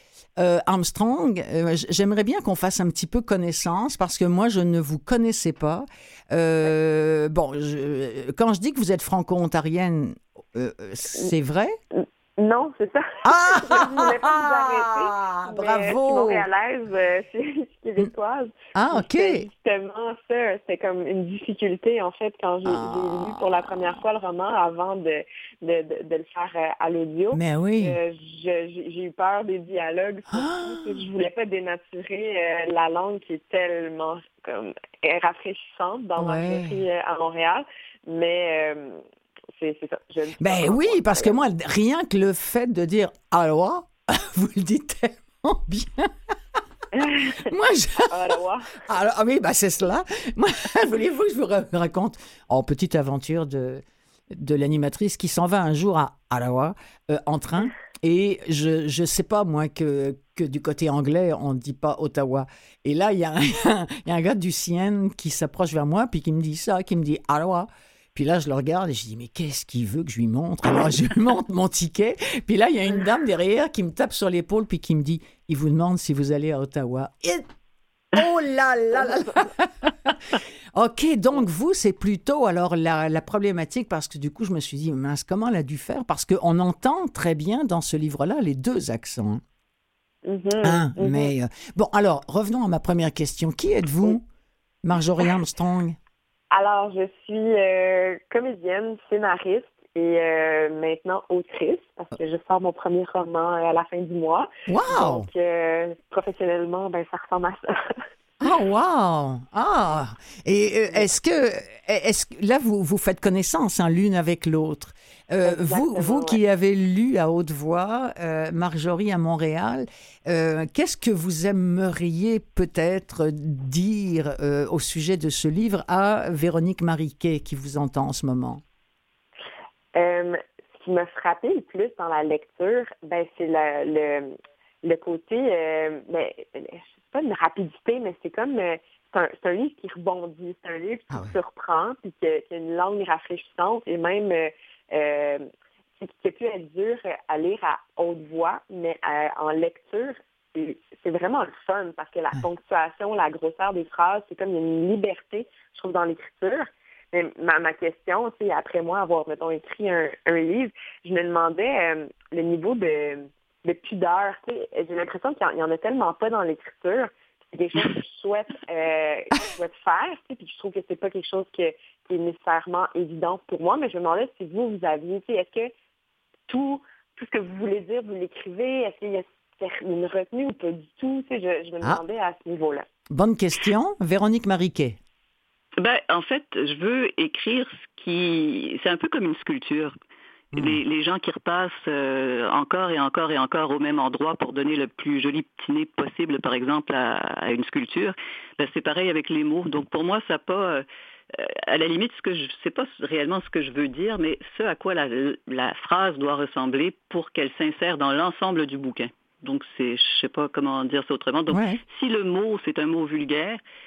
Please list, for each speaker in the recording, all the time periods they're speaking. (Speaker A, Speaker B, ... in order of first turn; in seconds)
Speaker A: 0.4-11.8, 13.2-16.4, 18.8-19.5, 22.6-23.7, 27.3-28.0, 30.3-31.0, 36.2-36.8, 40.4-46.1, 47.4-48.1, 48.8-53.8, 54.3-77.5, 78.1-89.4, 90.6-94.2, 94.8-96.0, 104.7-105.3, 108.4-128.6, 183.1-185.0, 190.5-190.8, 211.5-211.8
Speaker B: 11.9-39.0, 39.6-41.4, 47.0-47.5, 48.1-48.8, 90.2-91.3, 96.5-107.9, 115.5-116.4, 129.9-145.5, 146.0-175.7, 176.5-182.9
Speaker C: 185.8-189.9, 190.6-213.6